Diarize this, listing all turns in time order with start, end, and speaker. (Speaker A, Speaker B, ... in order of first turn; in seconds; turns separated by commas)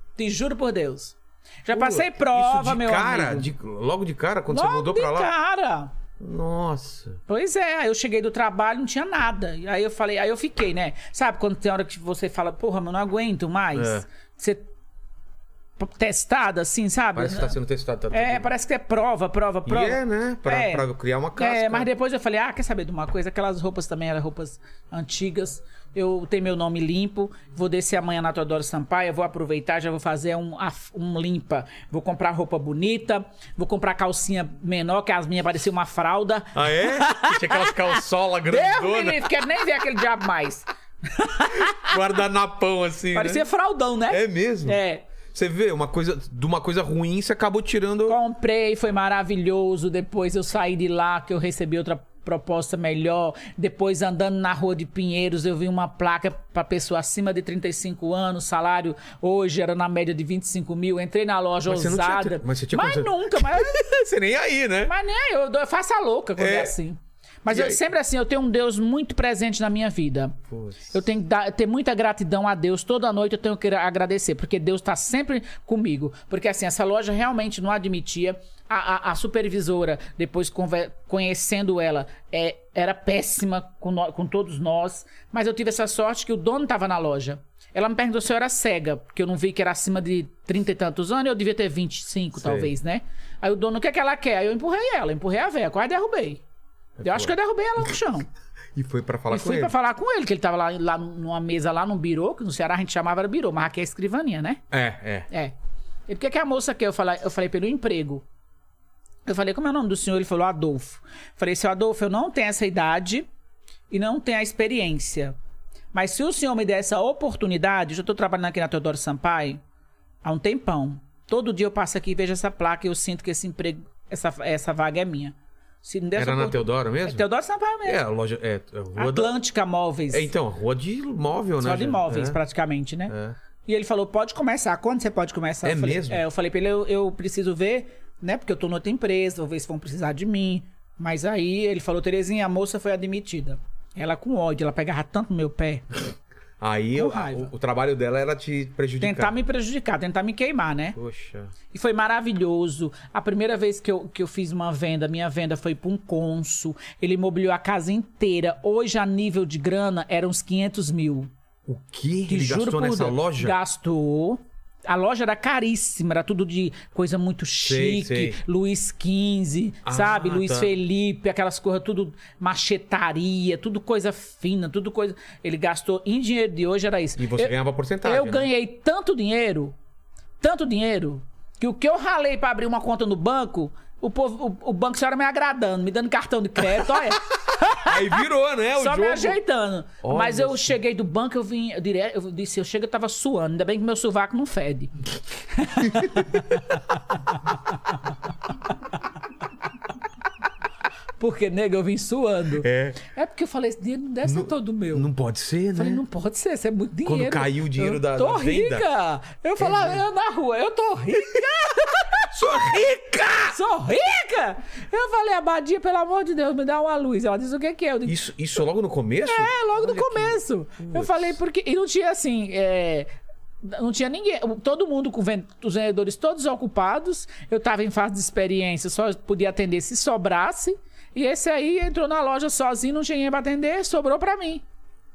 Speaker A: 0.2-3.5, Speaker B: 1.7-5.3, Speaker A: 4.5-5.9, Speaker B: 6.2-7.2, Speaker A: 7.3-14.7, Speaker B: 13.8-14.0, Speaker A: 15.8-17.6, Speaker B: 17.1-18.5, Speaker A: 18.1-41.9, Speaker B: 19.6-21.9, Speaker B: 36.5-39.3, Speaker B: 41.5-43.4, Speaker A: 43.1-45.0, Speaker B: 44.1-44.8, Speaker B: 45.3-48.2, Speaker A: 48.1-63.9, Speaker B: 61.6-64.9, Speaker A: 64.8-70.4, Speaker B: 66.4-66.7, Speaker B: 67.5-67.8, Speaker B: 70.5-71.0, Speaker A: 70.9-96.4, Speaker B: 92.4-92.7, Speaker B: 97.0-97.3, Speaker A: 97.0-98.3, Speaker B: 98.7-99.7, Speaker A: 99.3-104.6, Speaker B: 104.7-105.3, Speaker A: 105.3-105.5, Speaker A: 106.1-108.2, Speaker A: 109.2-113.3, Speaker A: 113.9-115.3, Speaker A: 115.9-119.6, Speaker A: 120.2-128.0, Speaker B: 126.2-127.2, Speaker B: 127.8-129.3, Speaker A: 128.9-130.3, Speaker B: 130.1-132.4, Speaker A: 131.6-133.1, Speaker B: 133.1-133.3, Speaker A: 133.7-146.0, Speaker B: 135.6-136.2, Speaker B: 146.6-149.3, Speaker A: 146.9-147.5, Speaker A: 149.0-150.9, Speaker B: 150.9-151.5, Speaker A: 151.7-161.3, Speaker B: 161.7-163.6, Speaker A: 162.3-179.7, Speaker B: 167.6-168.4, Speaker B: 169.8-170.7, Speaker B: 177.2-178.5, Speaker A: 180.4-188.2, Speaker B: 187.8-189.4, Speaker A: 188.8-194.9, Speaker B: 190.0-190.7, Speaker A: 195.5-197.4, Speaker A: 201.2-205.1, Speaker B: 202.6-203.0, Speaker B: 204.2-206.0, Speaker A: 205.7-212.3, Speaker B: 207.1-208.8, Speaker B: 209.6-210.0, Speaker B: 212.3-213.6, Speaker A: 213.4-218.2, Speaker B: 218.1-221.3, Speaker A: 219.2-223.1, Speaker A: 223.6-234.6